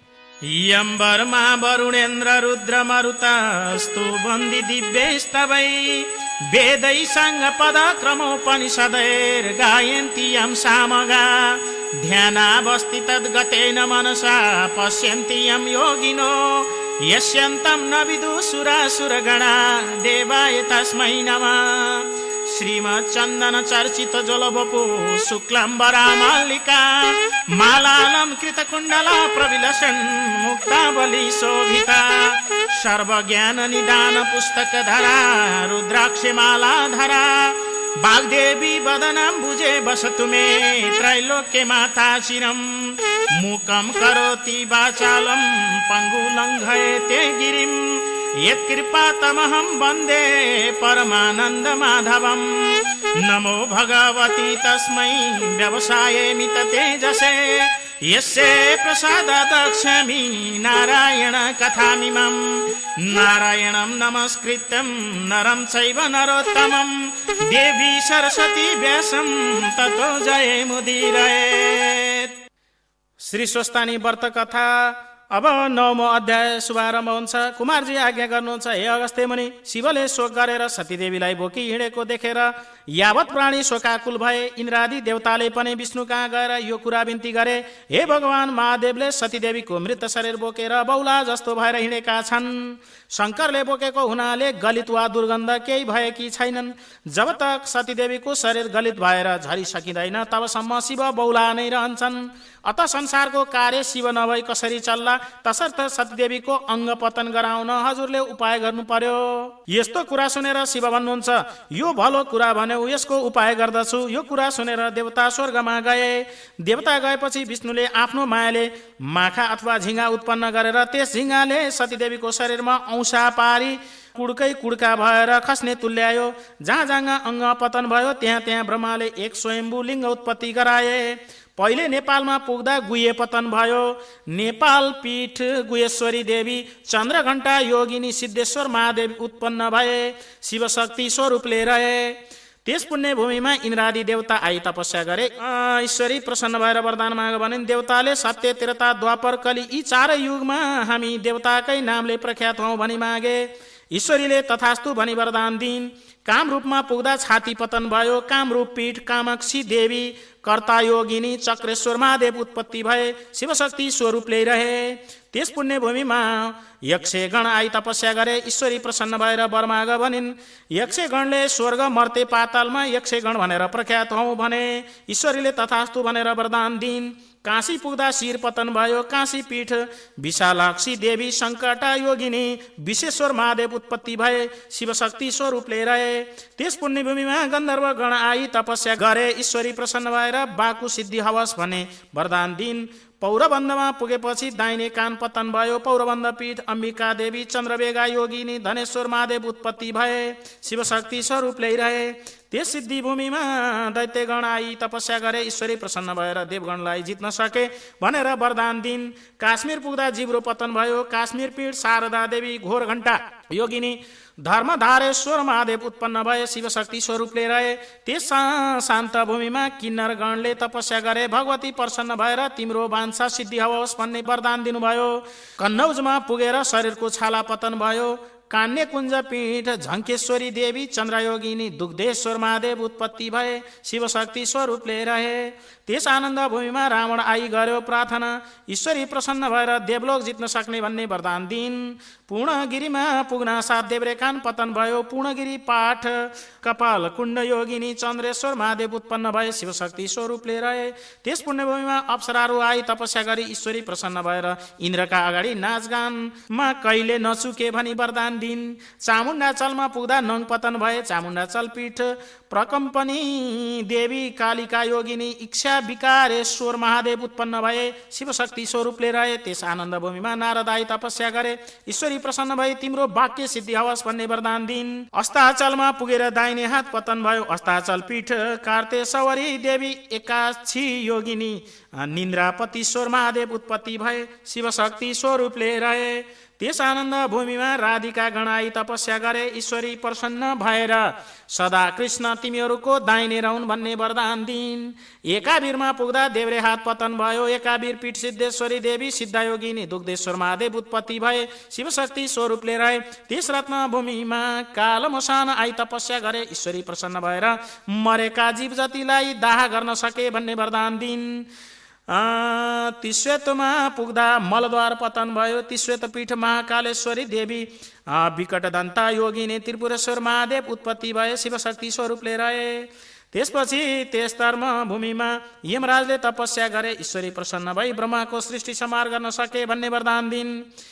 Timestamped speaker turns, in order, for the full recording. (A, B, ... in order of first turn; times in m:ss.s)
0:00.5-1:12.4 A
1:13.2-5:11.5 A
5:12.1-5:30.7 A